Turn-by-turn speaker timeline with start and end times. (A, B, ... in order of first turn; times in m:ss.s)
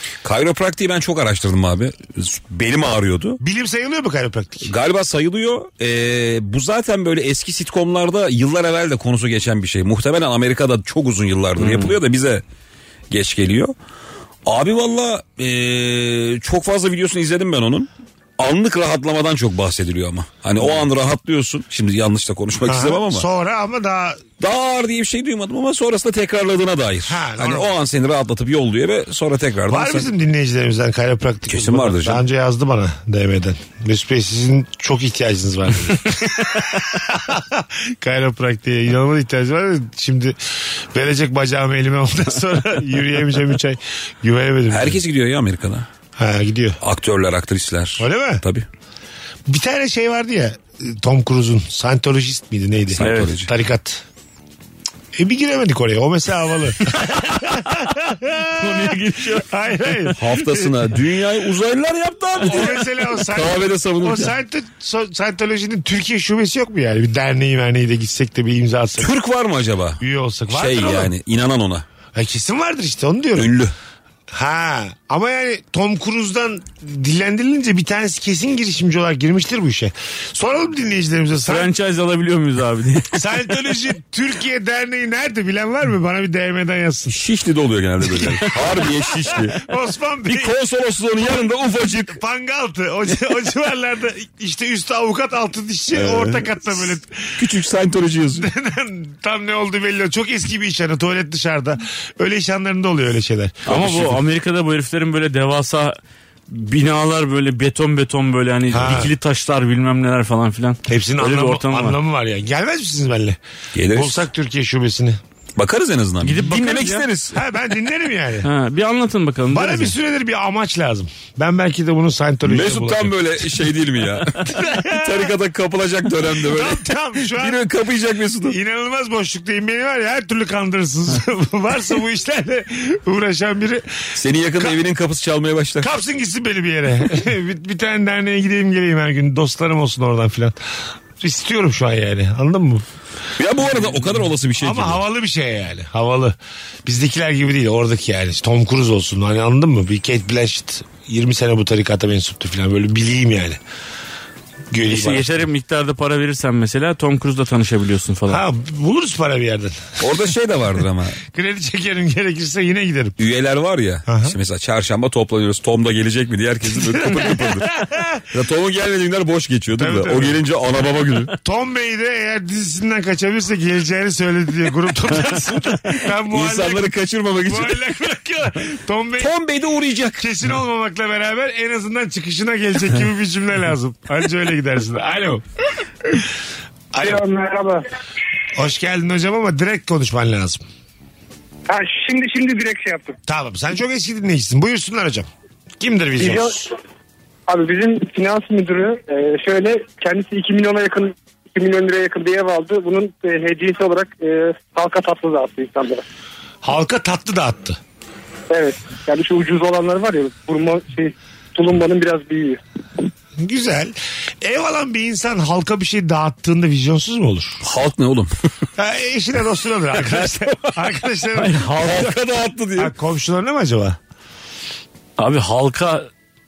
0:00.2-0:03.4 A
0:03.4-0:04.7 B
0:04.6-0:12.4 A
0:11.6-0:12.0 C
0:13.1-0:13.7 A
0:14.4-0:23.2 A
0:22.6-0:24.2 B
0:24.4-0:30.1 A
0:27.1-0:27.7 B
0:29.7-0:45.0 B
0:31.5-0:32.2 A
0:44.7-0:45.8 A
0:46.2-0:46.8 B
0:46.8-0:48.6 A
0:48.0-0:48.4 B
0:49.5-0:54.0 B
0:52.9-0:53.5 A
0:53.0-0:53.3 C
0:55.1-1:00.7 B
0:57.0-0:57.8 C
0:58.4-0:59.5 C
1:00.2-1:04.3 A
1:02.4-1:09.1 B
1:09.0-1:11.8 A
1:10.0-1:11.1 B
1:12.1-1:13.5 B
1:13.4-1:13.7 A
1:14.3-1:21.7 B
1:21.4-1:23.4 C
1:23.1-1:27.2 B
1:27.1-1:29.6 A
1:28.8-1:30.5 B
1:30.3-1:32.2 A
1:31.9-1:37.4 B
1:35.9-1:38.5 A
1:38.4-1:43.7 B
1:43.6-1:46.0 C
1:43.7-1:44.2 A
1:46.5-1:52.0 C
1:48.7-1:49.1 B
1:50.8-1:53.4 B
1:53.7-1:54.2 A
1:53.9-1:55.2 B
1:55.6-1:57.4 A
1:56.2-1:57.0 C
1:57.3-1:58.5 B
1:58.4-1:59.9 C
1:59.5-2:03.2 B
2:02.4-2:08.6 A
2:04.4-2:05.3 B
2:06.3-2:07.6 B
2:08.4-2:14.8 B
2:14.1-2:15.9 A
2:15.8-2:20.6 B
2:21.2-2:22.8 B
2:23.4-2:25.0 A
2:24.6-2:33.6 B
2:34.7-2:35.4 B
2:34.9-2:38.4 C
2:38.3-2:40.1 B
2:40.0-2:41.2 A
2:41.3-2:43.2 B
2:43.2-2:51.3 A
2:44.1-2:44.4 B
2:46.7-2:48.2 B
2:49.8-2:50.4 B
2:51.4-2:56.9 B
2:56.1-2:57.9 A
2:57.4-2:59.3 B
2:59.2-3:00.3 A
3:00.2-3:05.4 B
3:06.9-3:07.2 B
3:07.0-3:07.8 D
3:08.5-3:10.6 B
3:11.7-3:13.2 D
3:13.3-3:15.3 B
3:15.8-3:16.7 B
3:16.2-3:16.6 D
3:17.5-3:26.0 D
3:26.6-3:27.8 B
3:28.5-3:32.6 D
3:33.4-3:37.6 B
3:37.6-3:38.3 A
3:38.8-3:42.0 B
3:40.0-3:41.0 A
3:41.4-3:42.1 C
3:41.8-3:42.9 A
3:42.8-3:44.0 B
3:45.2-3:46.1 C